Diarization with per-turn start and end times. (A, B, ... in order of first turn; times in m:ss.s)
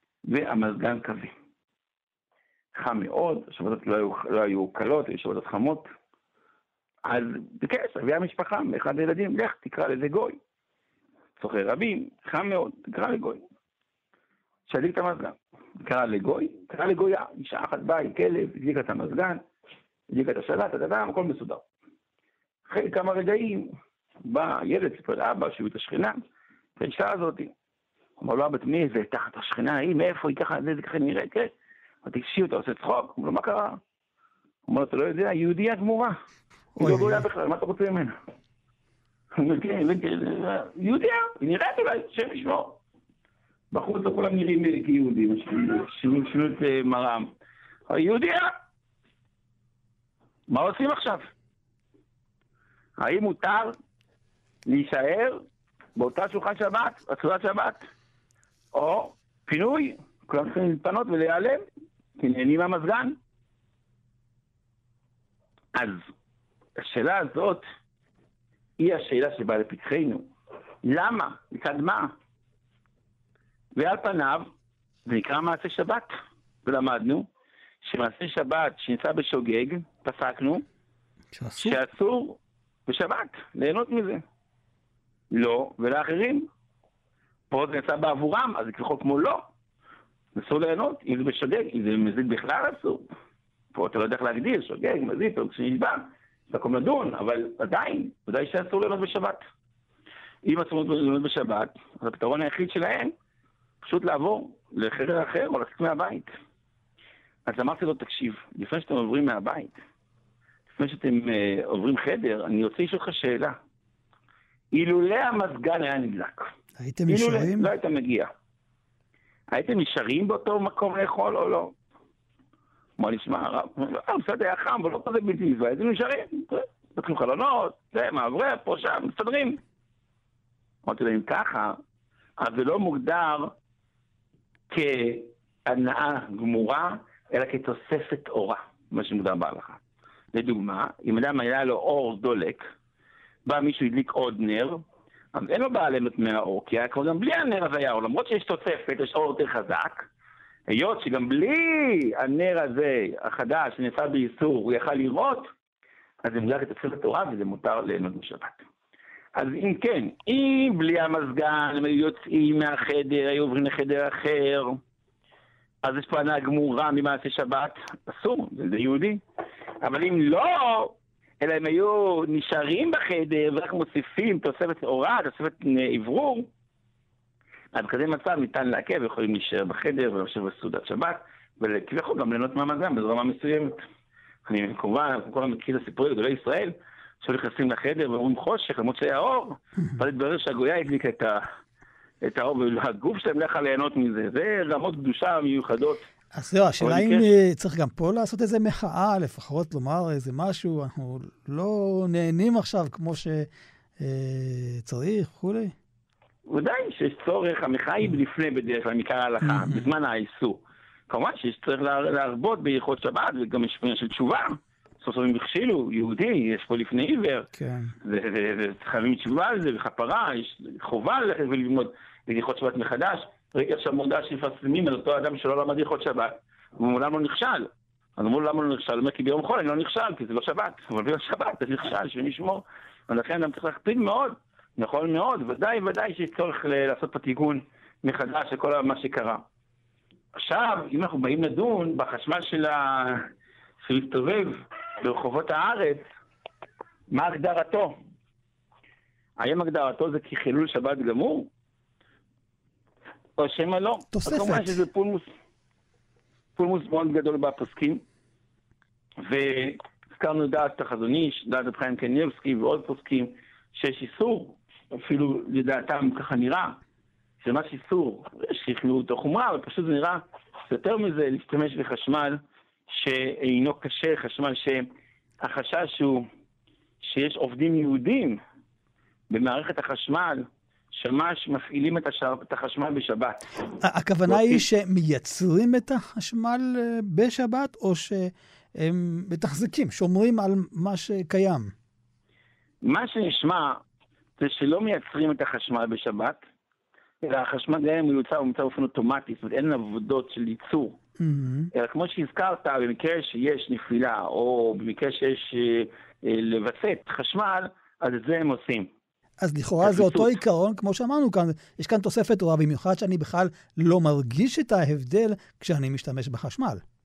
0:00.2-0:01.3 A
0:02.7-0:05.9 A
0:07.1-0:10.4 A
0:11.4-0:13.4 A
0:14.7-0:19.4 A
0:20.1-0:21.6 A
0:22.7-0:26.2 A
0:26.8-0:27.5 A
0:28.2-0:31.5 A
0:32.0-0:33.8 A
0:34.7-0:36.2 A
0:36.8-0:37.2 B
0:36.8-0:38.2 A
0:39.4-0:42.8 A
0:43.7-0:47.3 A
0:47.9-0:48.5 A
0:50.5-0:51.3 A
0:53.0-0:53.8 A
0:54.7-0:55.4 A
0:56.0-0:57.8 A
0:58.7-1:01.6 A
1:02.2-1:03.2 A
1:05.7-1:06.0 A
1:06.8-1:07.6 A
1:08.8-1:10.3 A
1:10.8-1:12.1 A
1:13.8-1:14.5 A
1:15.1-1:16.1 A
1:16.6-1:17.3 A
1:17.8-1:20.6 A
1:21.3-1:21.8 B
1:21.6-1:24.2 A
1:25.3-1:26.5 A
1:27.5-1:29.4 A
1:30.4-1:33.1 A
1:33.7-1:39.4 A
1:40.4-1:43.1 A
1:43.8-1:46.3 A
1:47.5-1:49.8 A
1:50.8-1:53.6 A
1:54.7-1:56.5 A
1:56.8-1:57.7 B
1:57.1-1:58.3 A
1:59.5-2:01.7 A
2:03.0-2:09.6 A
2:10.9-2:11.8 A
2:12.4-2:13.5 A
2:14.7-2:19.8 A
2:20.3-2:22.6 A
2:23.4-2:24.8 A
2:25.3-2:30.0 A
2:30.7-2:35.5 A
2:36.2-2:38.6 A
2:39.4-2:44.8 A
2:45.8-2:49.2 A
2:49.8-2:56.5 A
2:57.7-3:03.8 A
3:04.5-3:11.4 A
3:12.2-3:16.1 A
3:16.3-3:25.8 B
3:16.8-3:17.3 A
3:26.5-3:37.5 A
3:29.4-3:29.9 B
3:37.6-3:37.9 B
3:38.0-3:59.4 A
4:00.4-4:03.3 A
4:03.8-4:06.1 A
4:07.1-4:08.0 A
4:09.4-4:11.5 A
4:13.4-4:15.3 A
4:14.1-4:14.8 B
4:16.6-4:18.0 A
4:19.2-4:26.8 A
4:27.4-4:34.9 A
4:35.4-4:36.2 A
4:37.0-4:38.4 A
4:39.3-4:43.5 A
4:43.8-4:51.7 B
4:44.3-4:44.6 A
4:52.8-4:53.8 A
4:54.4-4:56.4 A
4:57.2-5:01.0 A
5:01.2-5:01.7 B
5:01.7-5:08.9 A
5:09.4-5:16.8 B
5:09.8-5:10.4 A